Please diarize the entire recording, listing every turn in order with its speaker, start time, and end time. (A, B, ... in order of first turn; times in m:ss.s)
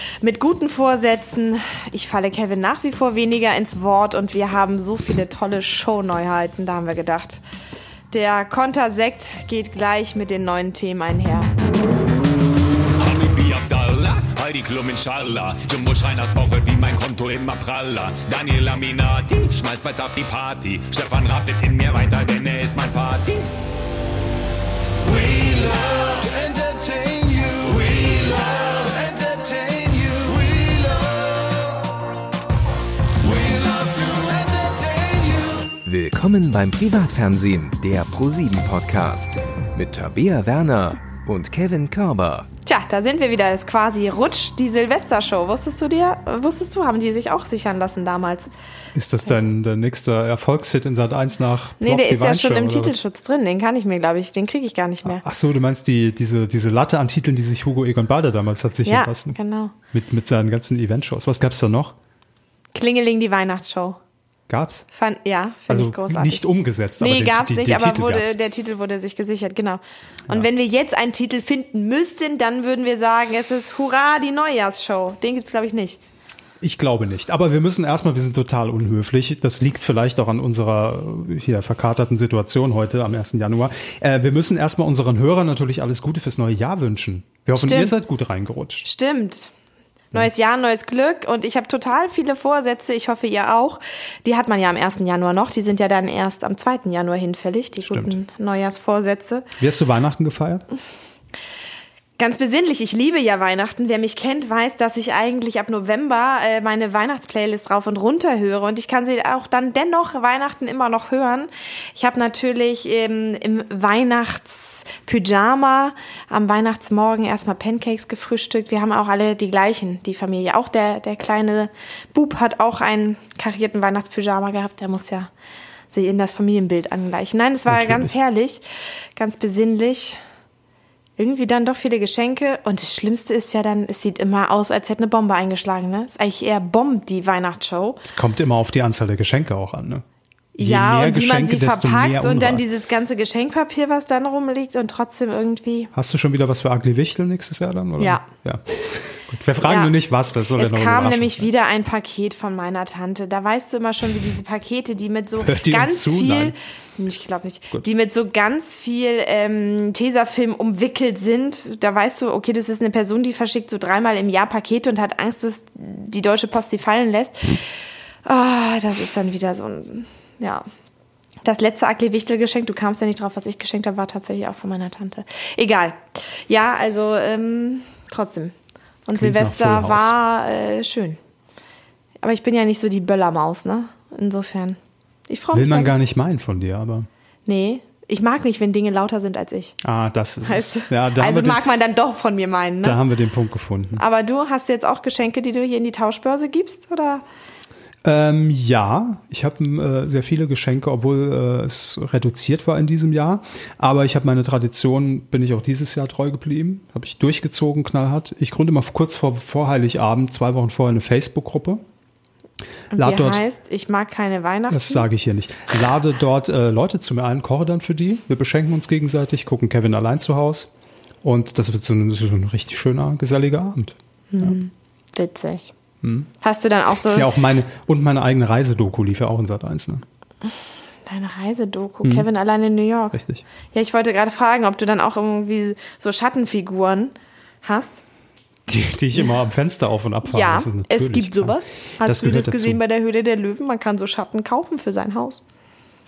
0:00.2-0:07.4 A
0:08.1-0:11.5 A
0:13.0-0:23.5 B
0:25.0-0:31.8 B
0:33.2-0:35.8 B
0:35.8-0:42.5 C
0:42.6-0:48.5 A
0:48.9-0:53.0 D
0:51.8-0:55.2 A
0:55.0-0:59.4 D
0:58.8-0:59.8 A
0:59.9-1:02.0 D
1:02.7-1:04.0 A
1:04.5-1:04.9 D
1:04.9-1:06.4 A
1:05.7-1:08.4 D
1:07.0-1:16.0 A
1:16.6-1:28.9 D
1:27.6-1:27.9 A
1:28.8-1:29.5 A
1:30.1-1:39.5 A
1:37.8-1:38.2 D
1:39.6-1:40.6 D
1:42.2-2:05.3 A
2:05.9-2:08.6 A
2:07.7-2:08.1 D
2:09.2-2:10.2 A
2:11.2-2:18.0 A
2:18.0-2:20.0 D
2:20.6-2:25.9 A
2:20.6-2:22.6 D
2:25.9-2:31.5 D
2:28.0-2:28.2 A
2:29.6-2:30.0 A
2:30.6-2:47.6 A
2:35.4-2:36.6 D
2:48.2-2:50.6 A
2:51.4-2:58.6 A
2:59.1-3:01.2 A
2:59.2-3:00.2 D
3:02.2-3:05.9 A
3:05.5-3:07.1 D
3:07.5-3:09.8 A
3:09.8-3:11.6 D
3:10.4-3:13.0 A
3:12.8-3:14.0 D
3:14.0-3:17.2 A
3:18.0-3:31.8 D
3:32.9-3:35.1 A
3:32.9-3:33.4 D
3:34.7-3:40.7 D
3:41.2-3:44.6 D
3:44.3-3:45.7 A
3:46.0-3:46.3 D
3:46.4-3:47.3 A
3:47.0-3:50.0 D
3:51.1-3:53.2 A
3:53.1-3:53.4 D
3:53.7-3:58.0 A
3:58.7-4:02.8 D
4:00.3-4:05.4 A